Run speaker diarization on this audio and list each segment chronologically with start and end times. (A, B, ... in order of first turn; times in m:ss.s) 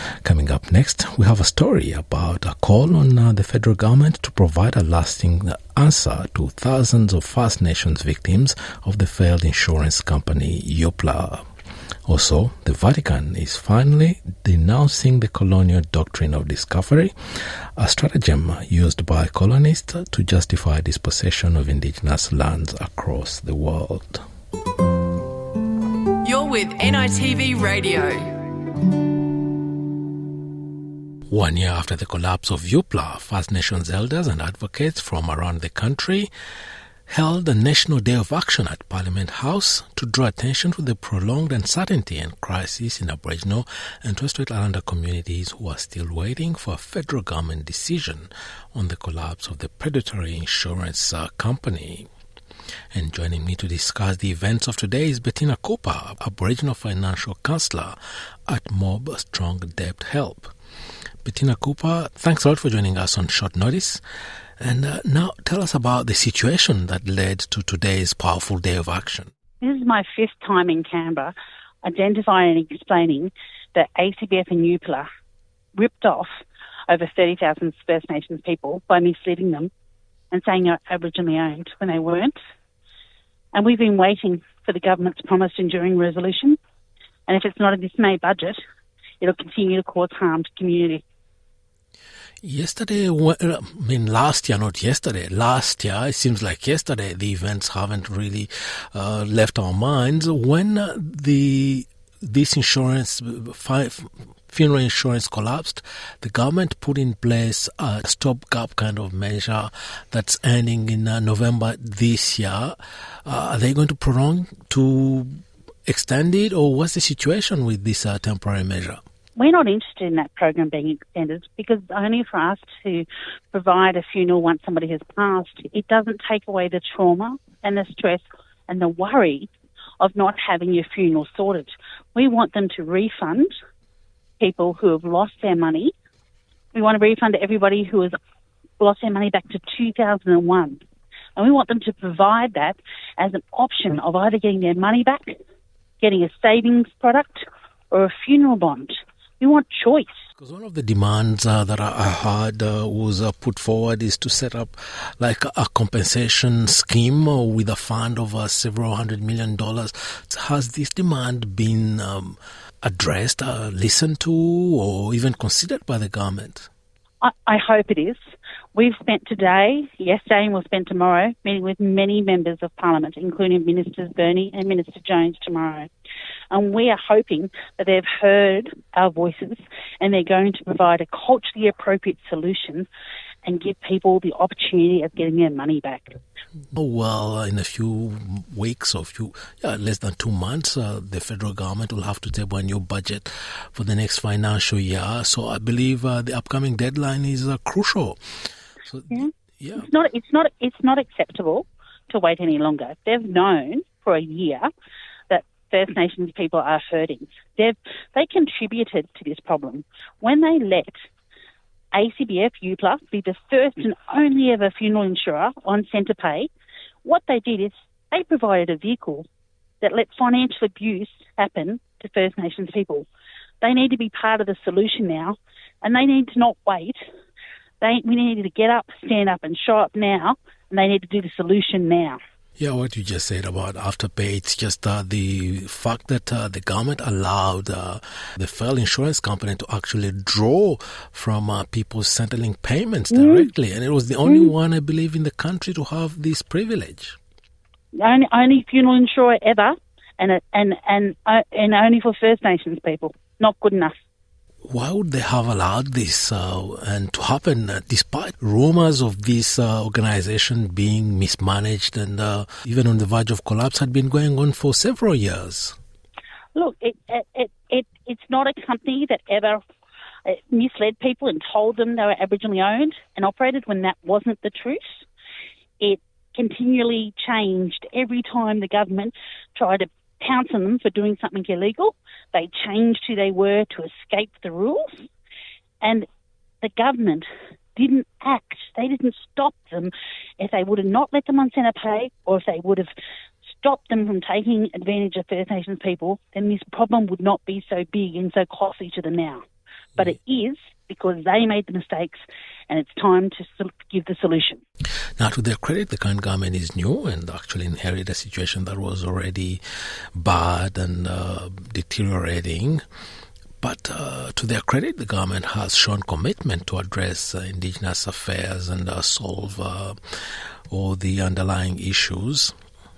0:00.2-0:11.4 A
0:12.0-0:17.1 A
0:17.8-0:24.2 A
0:26.2-0:28.3 B
0:31.3-0:36.3 A
0:37.1-0:52.1 A
0:52.9-1:00.5 A
1:01.2-1:04.0 A
1:04.6-1:09.3 A
1:09.6-1:15.1 C
1:15.8-1:16.3 C
1:16.9-1:19.7 C
1:20.3-1:22.4 C
1:23.5-1:26.6 C
1:27.3-1:28.6 C
1:29.2-1:31.0 C
1:32.4-1:59.0 A
1:59.4-2:09.5 C
2:10.0-2:13.5 C
2:14.4-2:15.9 C
2:16.7-2:18.1 C
2:18.8-2:20.8 C
2:21.4-2:25.4 C
2:26.0-2:30.1 C
2:30.4-2:46.7 A
2:47.2-2:48.2 C
2:48.7-2:55.9 C
2:56.5-3:02.9 C
3:03.4-3:06.2 C
3:06.7-3:18.2 A
3:18.8-3:19.8 A
3:19.1-3:24.7 C
3:25.3-3:31.0 C
3:31.9-3:36.5 C
3:37.0-3:39.2 C
3:39.8-3:43.0 C
3:43.6-3:47.0 C
3:47.8-3:52.2 C
3:52.6-4:07.2 A
4:03.1-4:03.5 C
4:04.2-4:04.5 C
4:08.0-4:13.9 C
4:14.6-4:25.8 A
4:26.6-4:29.6 C
4:30.3-4:34.8 C
4:35.8-4:45.0 C
4:45.8-4:46.1 C
4:46.6-4:47.2 C
4:47.8-4:52.9 C
4:53.6-4:59.4 C
5:00.0-5:04.6 C
5:05.2-5:09.6 A
5:10.1-5:12.8 A
5:13.6-5:20.0 A
5:20.7-5:22.5 A